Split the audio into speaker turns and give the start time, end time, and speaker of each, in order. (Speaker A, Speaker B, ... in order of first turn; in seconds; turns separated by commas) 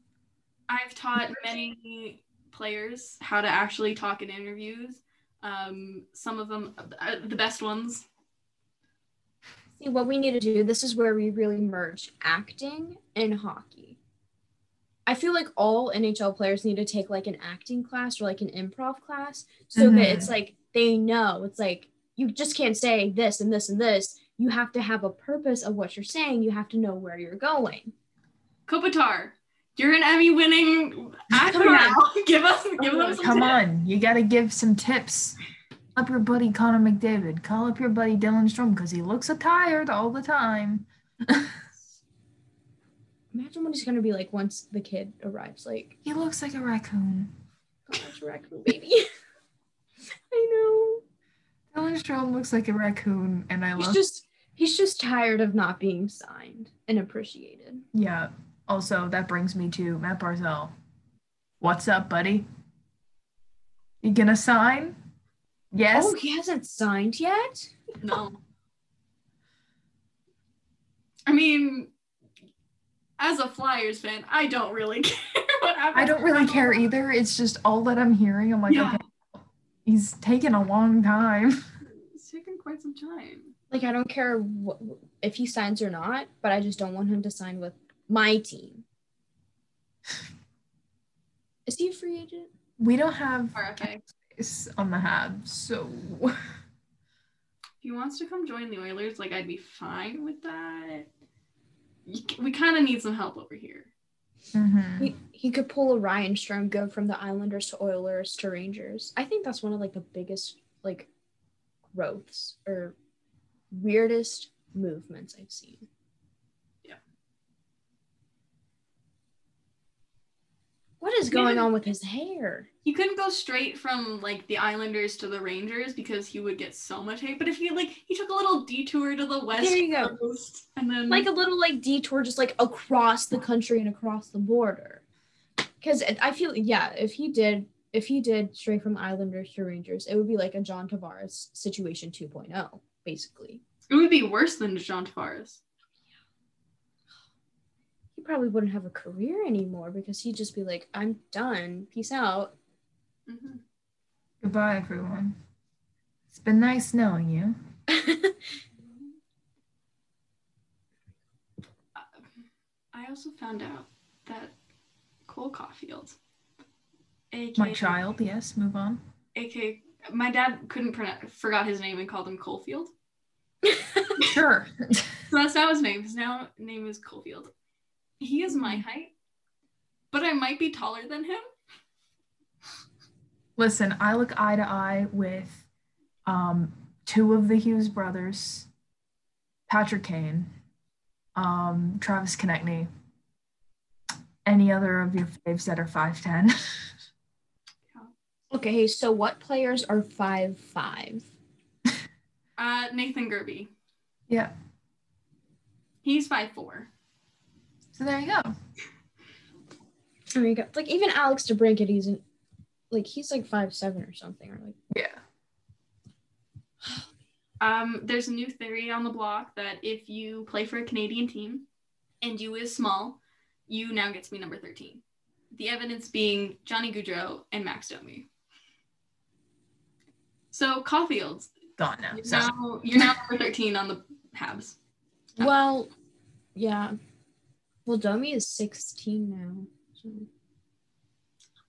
Speaker A: 0.7-8.1, Speaker B: 9.8-14.0, Speaker B: 15.1-27.9, Speaker C: 19.7-20.3, Speaker A: 28.7-33.6, Speaker B: 31.4-32.0, Speaker B: 32.8-33.2, Speaker C: 33.2-35.4, Speaker C: 35.9-41.6, Speaker B: 43.3-46.0, Speaker C: 46.0-47.3, Speaker B: 47.9-49.1, Speaker B: 50.3-51.0, Speaker C: 51.7-54.0, Speaker B: 53.8-57.8, Speaker C: 57.9-60.7, Speaker C: 61.6-62.5, Speaker C: 64.0-65.0, Speaker C: 65.7-66.1, Speaker B: 65.9-67.7, Speaker A: 68.0-68.4, Speaker A: 71.3-71.9, Speaker A: 73.2-76.9, Speaker C: 75.9-79.0, Speaker A: 78.7-79.0, Speaker C: 79.8-81.6, Speaker A: 81.8-83.5, Speaker B: 83.7-88.8, Speaker B: 91.7-92.5, Speaker C: 92.8-96.3, Speaker A: 93.5-94.0, Speaker A: 97.8-101.1, Speaker A: 102.0-103.9, Speaker C: 104.5-105.1, Speaker B: 105.0-111.1, Speaker B: 111.9-112.9, Speaker B: 113.7-115.9, Speaker B: 121.0-122.7, Speaker A: 121.3-121.7, Speaker A: 122.8-131.3, Speaker B: 129.6-130.1, Speaker B: 131.1-135.0, Speaker B: 135.8-143.6, Speaker A: 143.9-145.6, Speaker B: 148.2-152.5, Speaker A: 153.3-153.6, Speaker C: 154.4-155.3, Speaker C: 156.3-157.6, Speaker B: 157.9-158.3, Speaker A: 158.8-159.1, Speaker A: 161.9-162.2, Speaker A: 162.9-164.5, Speaker A: 165.3-166.2, Speaker A: 167.3-168.0, Speaker C: 167.6-169.0, Speaker A: 169.3-172.9, Speaker B: 173.6-174.2, Speaker C: 174.2-175.2, Speaker A: 175.3-177.5, Speaker A: 178.2-179.1, Speaker A: 180.1-181.4, Speaker C: 183.6-185.6, Speaker C: 186.2-188.7, Speaker C: 189.7-190.5, Speaker C: 191.3-192.9, Speaker C: 194.4-196.9, Speaker B: 198.5-201.3, Speaker A: 202.6-203.7, Speaker A: 206.0-206.9, Speaker C: 207.9-208.5, Speaker B: 210.3-212.2, Speaker B: 212.9-214.8, Speaker C: 214.9-215.2, Speaker A: 217.6-221.6, Speaker A: 222.2-228.3, Speaker A: 230.5-231.5, Speaker C: 231.8-233.1, Speaker A: 232.1-234.8, Speaker B: 235.4-235.9, Speaker B: 236.6-236.9, Speaker B: 237.8-240.3